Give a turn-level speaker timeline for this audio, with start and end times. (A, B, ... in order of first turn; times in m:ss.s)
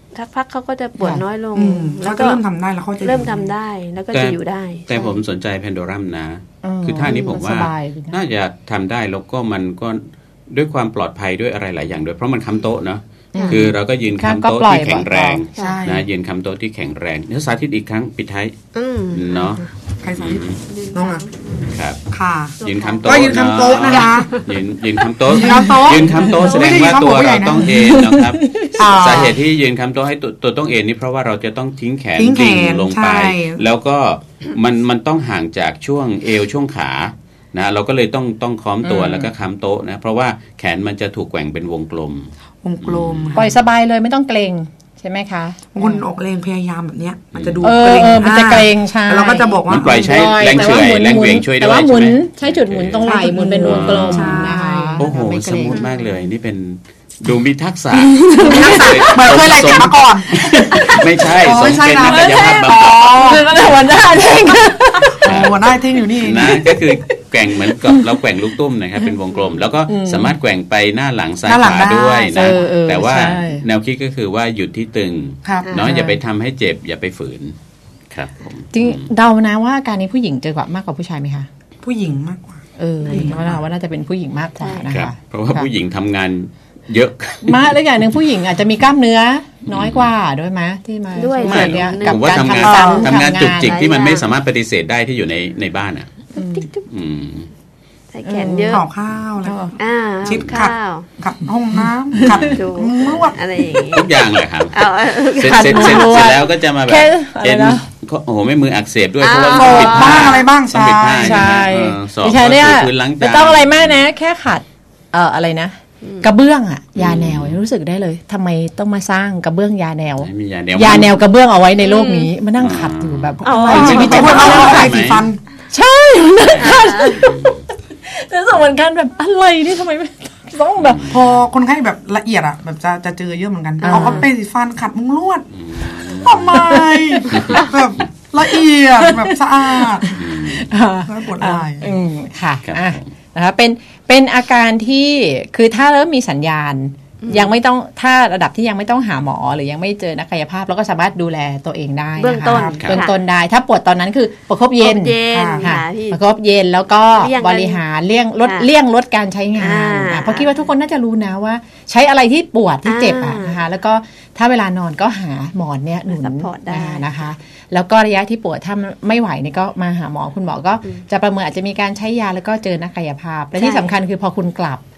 0:00.1-0:02.4 A
0:01.0-0:01.2 B
0:01.6-0:03.5 C
0:03.0-0:05.2 A
0:04.9-0:18.5 D
0:06.6-0:08.2 B
0:07.1-0:07.4 A
0:13.3-0:15.4 B
0:15.6-0:16.1 C
0:15.6-0:15.8 A
0:18.7-0:19.7 A
0:19.1-0:20.6 D
0:20.0-0:21.3 C
0:20.7-0:21.7 A
0:21.7-0:22.0 D
0:22.1-0:24.4 C
0:22.6-0:23.2 A
0:22.6-0:42.3 D
0:25.3-0:27.9 C
0:27.7-0:28.9 B
0:28.8-0:29.4 C
0:32.2-0:33.6 C
0:38.8-0:39.3 B
0:42.6-0:43.5 C
0:42.8-0:43.5 D
0:43.3-0:46.0 B
0:45.8-0:50.7 C
0:47.4-0:47.6 D
0:47.6-0:55.8 B
0:49.7-1:04.2 D
0:53.1-0:55.2 C
0:58.0-0:59.4 B
0:58.4-1:03.6 C
1:00.7-1:01.0 B
1:02.1-1:05.6 B
1:05.0-1:06.7 C
1:05.2-1:05.6 D
1:06.2-1:17.6 D
1:06.4-1:08.3 B
1:09.9-1:10.4 B
1:11.5-1:12.6 C
1:12.3-1:13.6 B
1:15.4-1:15.8 C
1:15.6-1:15.9 A
1:15.7-1:16.2 B
1:18.1-1:19.1 D
1:18.7-1:21.5 B
1:21.8-1:23.6 C
1:22.8-1:25.7 B
1:23.0-1:23.3 A
1:24.6-1:24.9 A
1:24.9-1:28.2 D
1:27.4-1:33.8 B
1:29.7-1:30.1 D
1:31.2-1:34.3 A
1:31.4-1:36.1 D
1:36.4-1:36.7 B
1:36.4-1:36.8 A
1:36.9-1:37.5 D
1:38.1-1:38.8 A
1:38.2-1:38.8 B
1:38.7-1:43.4 C
1:39.4-1:39.8 B
1:39.8-1:41.1 A
1:41.7-1:42.6 B
1:42.3-1:44.1 A
1:43.9-1:54.0 D
1:44.7-1:46.4 A
1:45.4-1:47.9 B
1:49.2-1:50.4 A
1:49.6-1:51.6 C
1:49.6-1:50.4 B
1:51.2-2:05.0 B
1:56.0-1:56.3 A
1:57.0-1:57.6 D
2:00.2-2:01.2 D
2:01.8-2:02.3 A
2:02.6-2:05.3 D
2:03.4-2:04.6 A
2:03.6-2:05.4 C
2:05.7-2:11.2 B
2:06.5-2:07.6 D
2:06.6-2:07.3 A
2:10.8-2:11.4 D
2:11.1-2:20.2 C
2:13.8-2:14.3 A
2:13.9-2:14.2 B
2:15.6-2:16.7 D
2:16.5-2:17.6 B
2:17.3-2:17.7 D
2:19.0-2:54.8 B
2:20.2-2:20.7 D
2:21.1-2:22.0 C
2:22.6-2:23.1 D
2:27.2-2:27.5 A
2:32.2-2:33.2 A
2:32.5-2:32.8 C
2:34.8-2:36.2 A
2:35.3-2:35.7 C
2:37.2-2:37.8 A
2:38.4-2:38.7 A
2:39.6-2:40.5 A
2:42.8-2:43.6 A
2:46.1-2:47.3 A
2:53.6-2:53.9 A